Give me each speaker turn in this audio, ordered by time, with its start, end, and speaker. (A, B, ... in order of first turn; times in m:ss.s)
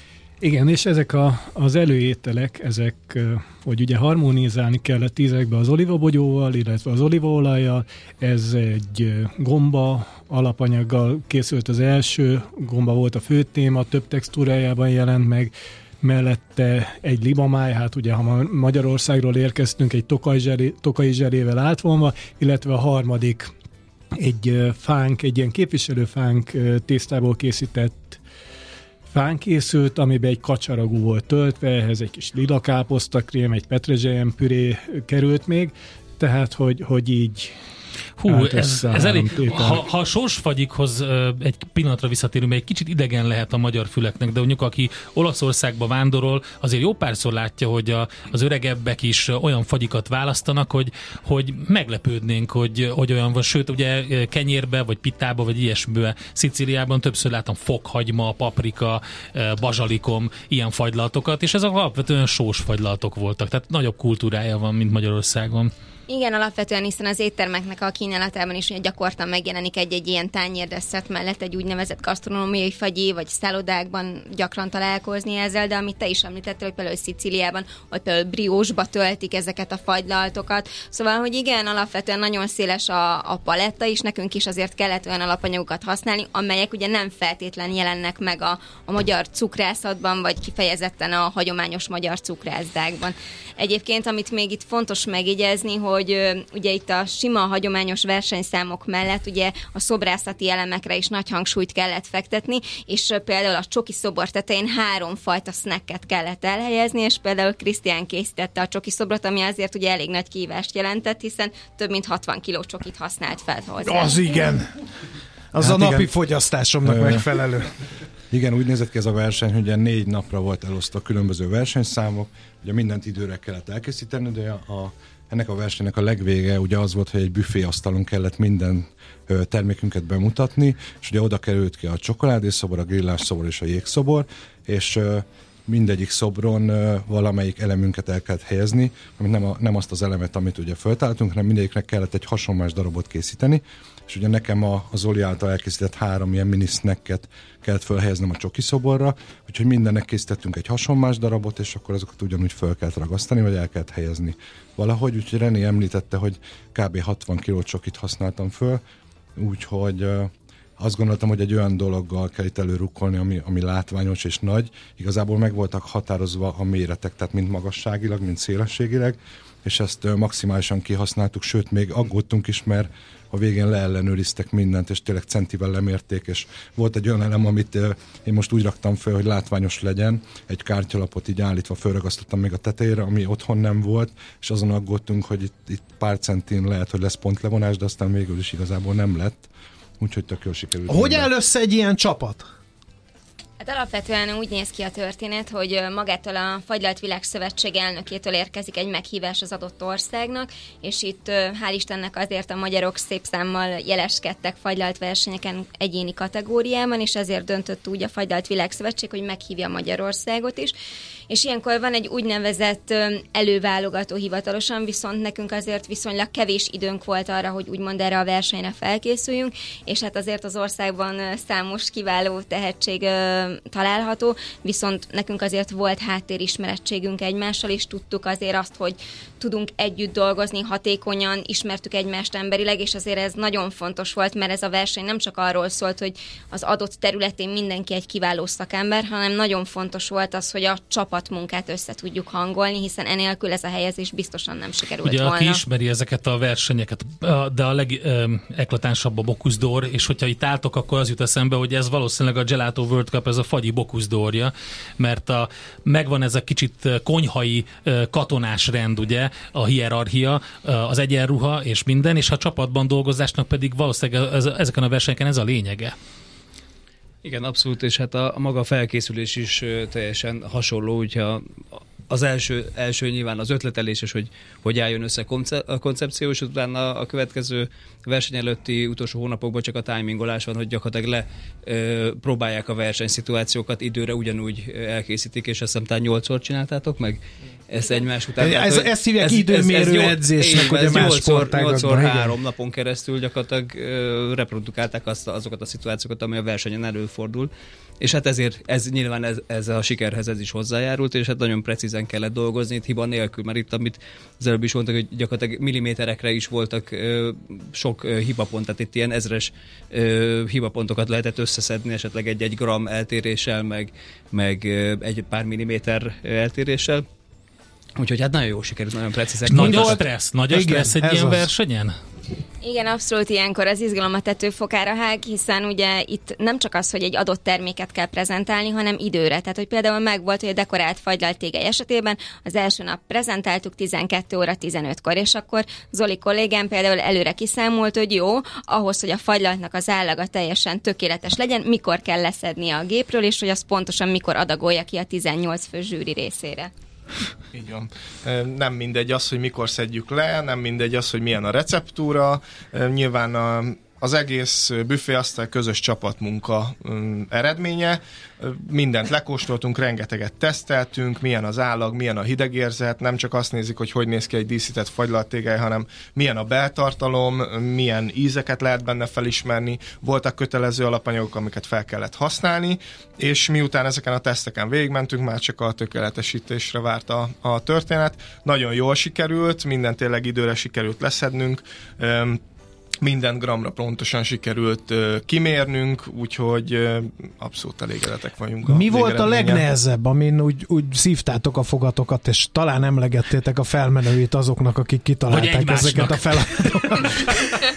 0:00.4-0:23.5 A
0:24.2-0:28.2 A
0:29.1-0:37.5 A
0:38.2-1:05.7 B
0:38.3-0:39.8 A
1:06.1-1:54.2 C
1:53.8-1:54.7 D
1:55.5-1:57.7 D
1:55.6-1:56.1 E
1:56.8-1:57.3 E
1:58.3-2:38.8 E
2:39.4-3:09.5 E
3:10.0-3:11.3 E
3:10.9-3:12.5 D
3:13.6-3:30.8 C
3:31.3-4:05.6 C
4:05.0-4:26.0 B
4:27.2-4:31.5 F
4:32.1-5:17.0 F
4:48.4-4:52.4 D
5:18.0-5:20.1 F
5:19.4-5:22.0 B
5:19.6-5:19.8 D
5:20.5-5:21.5 D
5:22.6-5:46.7 C
5:47.5-6:22.4 G
6:23.0-6:29.7 G
6:28.7-6:37.2 D
6:35.3-6:37.0 B